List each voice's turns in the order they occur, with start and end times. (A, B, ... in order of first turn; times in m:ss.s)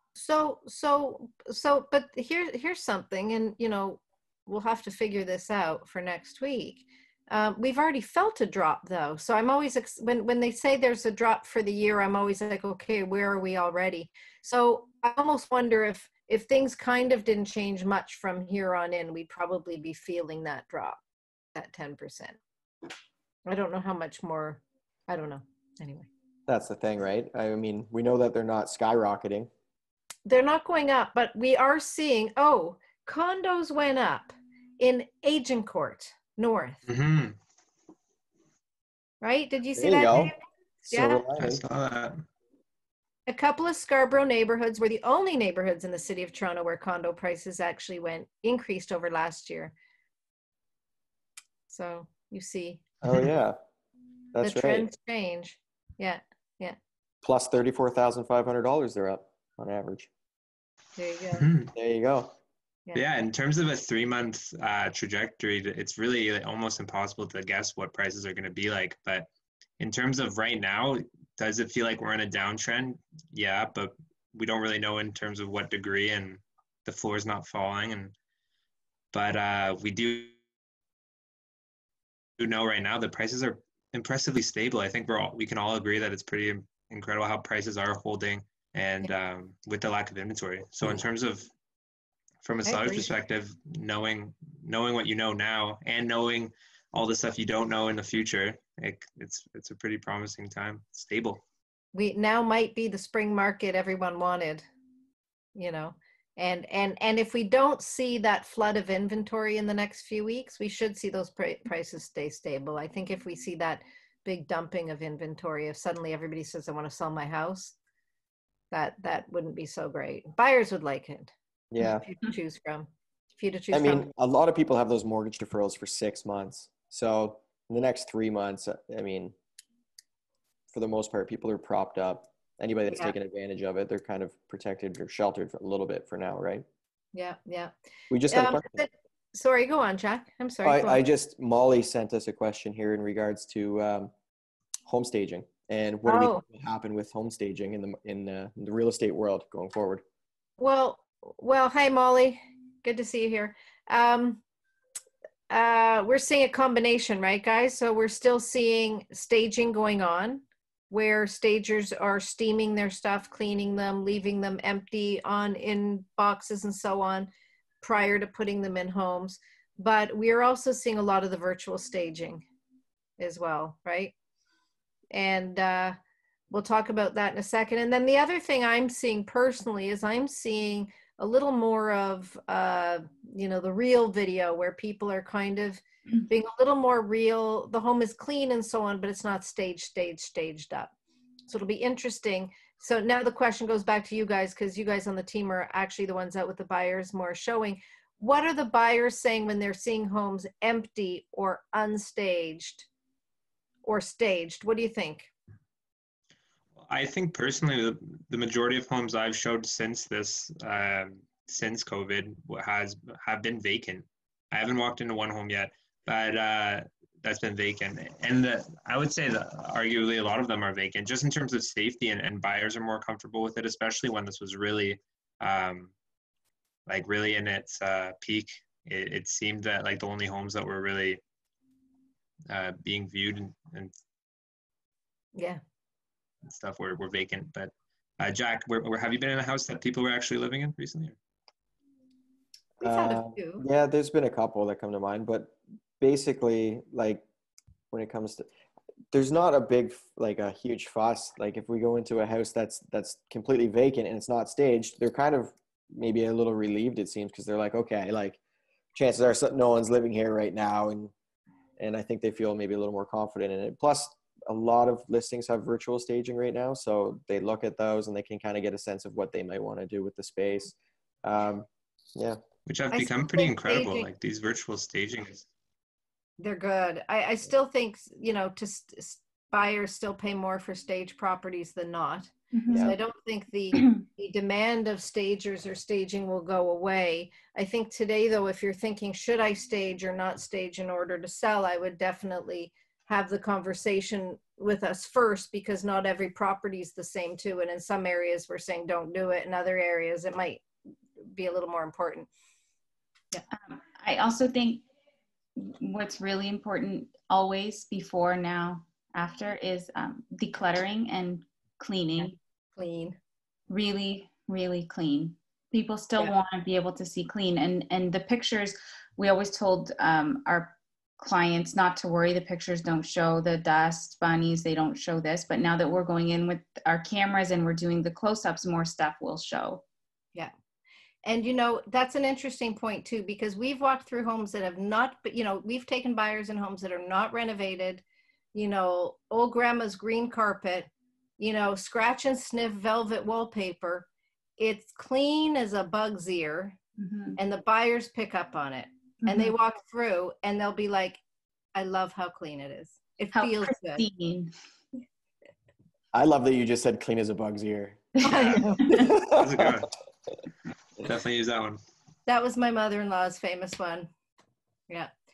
0:00.2-0:21.0 A
0:21.6-0:22.4 A
0:23.5-0:26.1 A
0:26.5-0:29.5 B
0:30.3-0:36.8 A
0:36.9-0:37.4 C
0:39.2-0:41.2 A
0:39.8-0:40.4 B
0:40.9-0:41.6 B
0:41.4-0:42.2 C
0:43.3-0:49.7 A
0:51.7-0:52.8 A
0:53.0-0:53.6 B
0:54.3-0:54.9 B
0:54.4-0:56.8 A
0:57.2-1:00.1 B
1:01.0-1:01.5 A
1:01.4-1:01.7 C
1:01.7-1:02.4 B
1:02.9-1:09.3 C
1:09.8-1:18.2 C
1:19.1-1:20.3 C
1:22.4-1:31.5 C
1:32.4-1:41.4 C
1:32.6-1:33.1 A
1:41.9-1:44.7 A
1:45.6-1:57.8 A
1:58.7-2:04.1 A
2:01.7-2:02.1 B
2:03.7-2:09.4 B
2:10.7-2:16.6 B
2:17.1-2:17.7 A
2:18.1-2:18.8 B
2:18.3-2:21.0 A
2:20.6-2:24.1 B
2:24.9-2:30.0 B
2:26.1-2:26.4 A
2:30.6-2:34.4 A
2:35.5-2:47.3 A
2:47.8-2:52.4 A
2:53.2-2:54.1 A
2:55.1-2:56.0 A
2:56.5-3:10.9 A
3:11.5-3:22.9 A
3:23.8-3:25.3 A
3:26.8-3:45.9 C
3:46.9-3:51.2 C
3:52.5-3:53.9 C
3:55.4-3:55.6 A
3:56.5-4:01.2 C
4:02.8-4:03.6 A
4:02.8-4:07.2 B
4:07.9-4:08.5 B
4:09.1-4:18.4 B
4:19.0-4:21.1 B
4:21.8-4:32.4 B
4:32.7-4:35.5 C
4:32.9-4:34.1 A
4:36.4-5:00.6 A
4:42.5-4:42.9 D
4:42.7-4:43.0 B
5:01.2-5:02.3 A
5:03.5-5:04.8 D
5:05.6-5:12.4 D
5:12.8-5:13.2 A
5:13.7-5:29.8 D
5:31.2-5:44.1 A
5:44.6-5:46.8 A
5:47.0-5:47.4 D
5:47.4-5:51.2 A
5:51.8-5:54.0 A
5:53.4-5:54.5 D
5:56.1-5:59.8 B
5:58.2-5:59.0 A
5:58.3-5:58.6 C
5:59.2-5:59.9 C
6:01.0-6:01.8 C
6:02.3-6:04.1 A